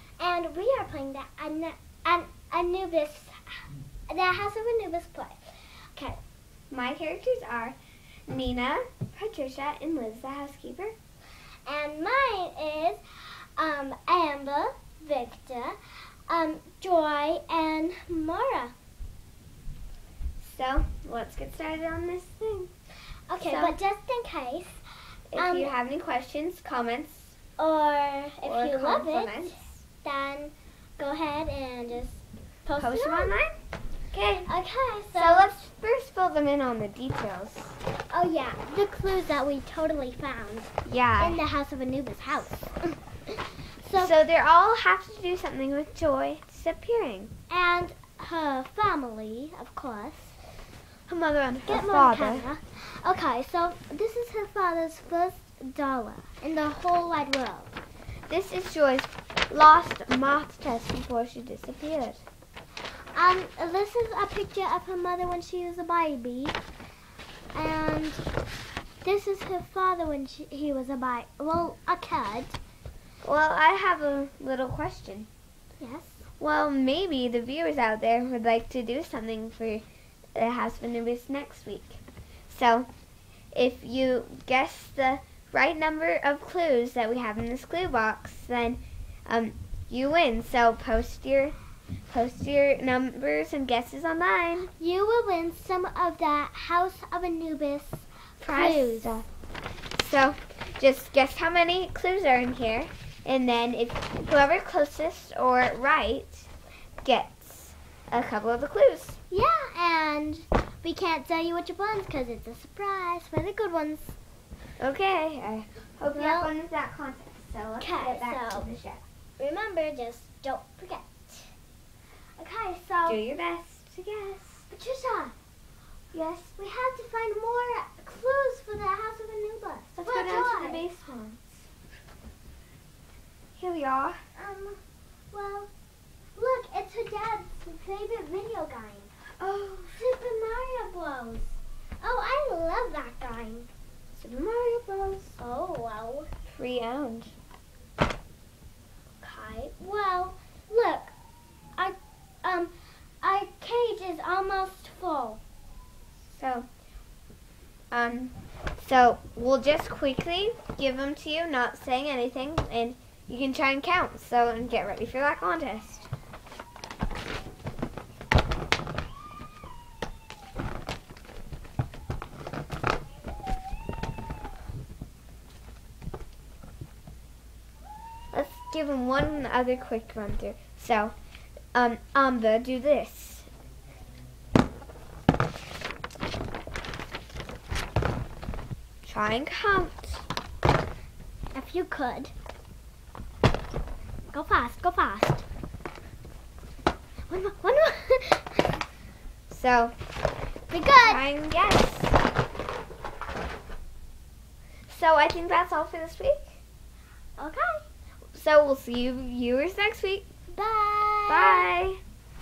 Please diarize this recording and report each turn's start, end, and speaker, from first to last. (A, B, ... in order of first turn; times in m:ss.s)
0:00.2-0:06.2 A
0:06.7-0:10.9 B
0:11.6-0:13.0 A
0:13.6-0:15.8 A
0:16.3-0:18.7 A
0:20.4-0:22.7 B
0:23.3-0:24.8 A
0:23.4-0:23.8 B
0:25.3-0:27.4 B
0:25.4-0:25.7 A
0:27.6-0:33.4 A
0:28.4-0:29.8 B
0:32.8-0:33.6 B
0:34.1-0:34.5 B
0:34.4-0:35.6 A
0:35.1-0:37.8 B
0:38.1-0:44.1 A
0:40.8-0:41.4 B
0:44.0-0:47.3 B
0:47.5-0:50.4 A
0:51.1-0:52.5 B
0:51.7-0:57.7 A
0:58.3-1:02.2 B
1:03.1-1:06.6 A
1:07.5-1:08.2 A
1:09.0-1:12.6 A
1:13.2-1:15.3 B
1:15.8-1:16.2 A
1:16.4-1:19.8 B
1:20.3-1:22.9 B
1:23.5-1:31.6 B
1:32.1-1:34.7 B
1:34.8-1:39.2 A
1:38.4-1:39.2 B
1:39.9-1:46.5 B
1:47.0-1:49.2 B
1:49.3-1:54.2 A
1:54.8-1:59.0 B
1:56.1-1:56.5 A
1:57.8-1:58.7 A
1:59.4-2:01.5 A
2:02.4-2:03.2 A
2:03.0-2:04.6 B
2:04.7-2:05.3 A
2:06.1-2:10.8 A
2:10.0-2:11.7 B
2:13.6-2:14.2 B
2:14.4-2:14.8 A
2:15.3-2:15.7 A
2:16.3-2:19.1 A
2:19.4-2:20.0 B
2:19.9-2:23.7 A
2:24.2-2:25.4 B
2:25.4-2:26.3 A
2:26.5-2:27.3 B
2:29.2-2:31.1 A
2:31.8-2:35.4 A
2:36.3-2:36.7 B
2:37.9-2:46.1 B
2:58.3-3:01.1 B
3:01.7-3:03.5 B
3:09.0-3:10.2 B
3:11.5-3:12.3 A
3:14.3-3:15.4 A
3:17.3-3:18.8 A
3:19.5-3:19.9 B
3:20.7-3:21.3 A
3:21.0-3:22.2 B
3:24.9-3:26.6 B
3:27.4-3:27.8 A
3:28.3-3:30.3 B
3:30.5-3:31.6 A
3:31.3-3:32.0 B